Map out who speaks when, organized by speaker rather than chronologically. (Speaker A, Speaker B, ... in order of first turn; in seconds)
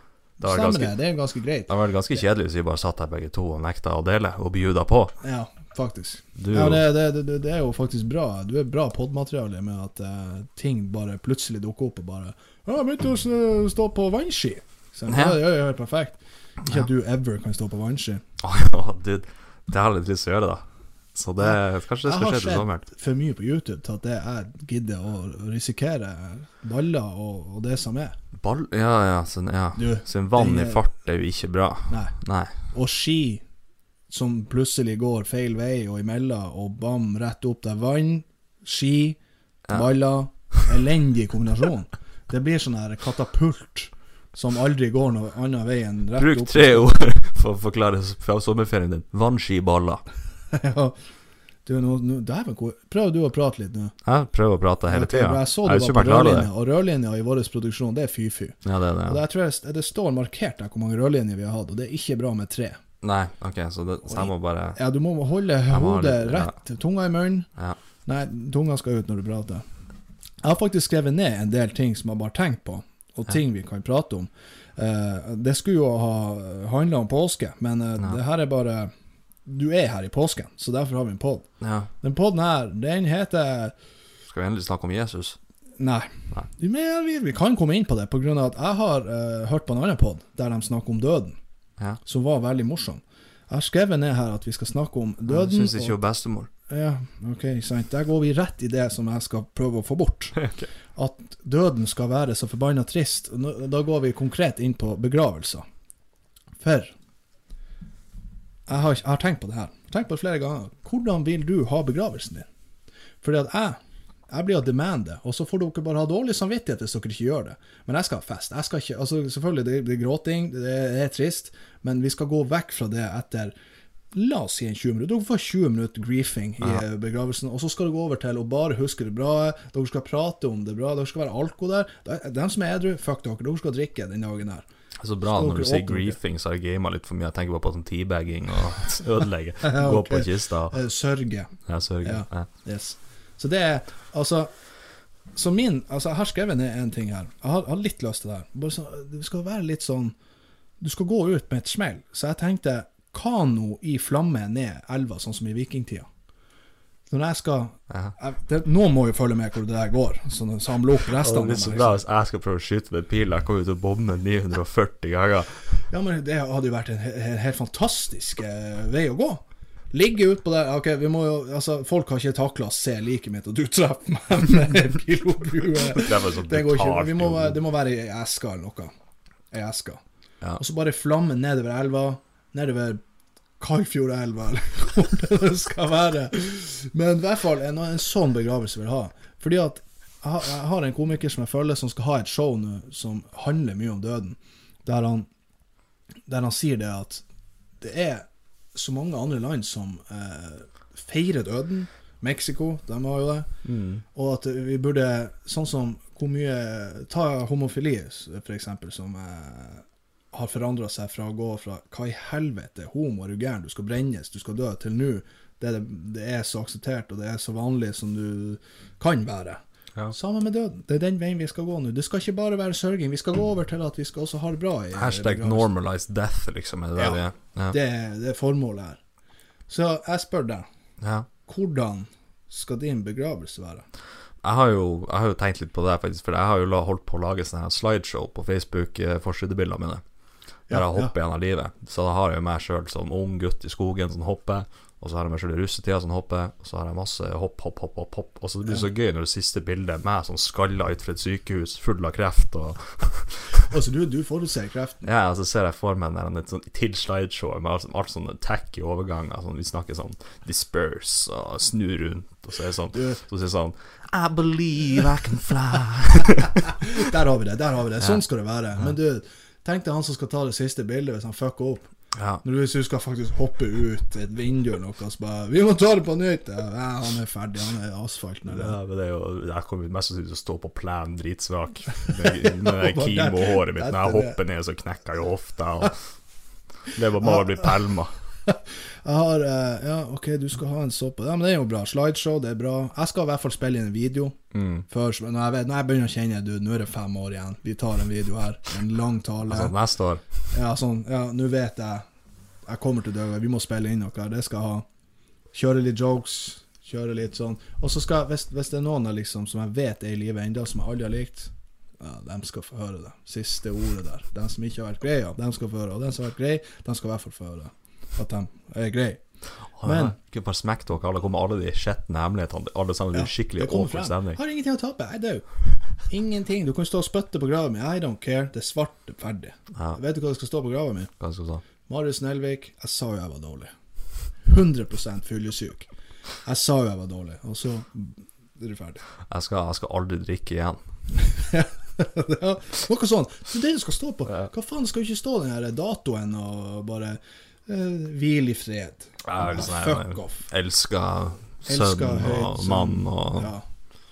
Speaker A: 0.4-1.7, 5.2-18.2, 21.4-28.1, 29.8-30.8, 31.9-33.4, 34.1-39.2, 39.7-46.9, 50.5-51.0, 51.6-53.9, 54.9-62.8, 64.0-67.5, 68.0-69.6, 70.4-78.9, 79.5-81.5, 82.0-83.7, 85.8-91.4, 92.0-96.0, 96.7-100.4, 100.9-105.7, 106.6-106.9, 108.7-112.5, 113.2-113.8, 114.3-123.5, 124.1-134.7, 135.3-136.2, 139.6-144.5, 145.3-150.1, 150.8-156.1, 157.1-162.0, 165.9-178.9, 179.5-180.0, 180.6-183.0, 183.6-195.3, 196.3-197.2, 197.8-203.5, 204.1-219.6, 220.1-225.7, 226.9-229.0, 229.7-230.6, 231.4-233.8, 240.7-241.1, 253.7-255.0, 262.9-263.2, 266.6-271.9, 272.4-278.8, 282.1-284.4, 287.2-287.8, 288.4-299.7, 300.5-302.1, 302.7-304.9, 305.5-320.1, 323.1-331.1, 331.9-333.7, 334.3-335.9, 336.4-339.0, 341.3-350.5, 351.6-353.6
Speaker B: 0.4-1.0, 1.7-5.1, 6.4-6.8, 15.1-15.4, 18.4-20.6, 21.1-22.8, 28.4-32.5, 46.2-50.0, 54.0-56.5, 58.6-59.2, 63.0-64.8, 65.7-66.5, 81.6-81.9, 84.3-85.4, 95.3-96.5, 100.3-100.7, 135.0-140.8, 141.7-142.5, 161.1-165.8, 175.9-177.6, 203.6-204.0, 224.9-227.8, 231.0-231.2, 234.4-240.0, 240.7-253.7, 255.0-267.1, 272.1-272.4, 278.5-286.0, 286.9-288.1, 294.5-294.9, 299.5-300.2, 319.8-324.4, 329.7-330.0, 331.2-331.6, 339.2-340.8, 349.2-353.5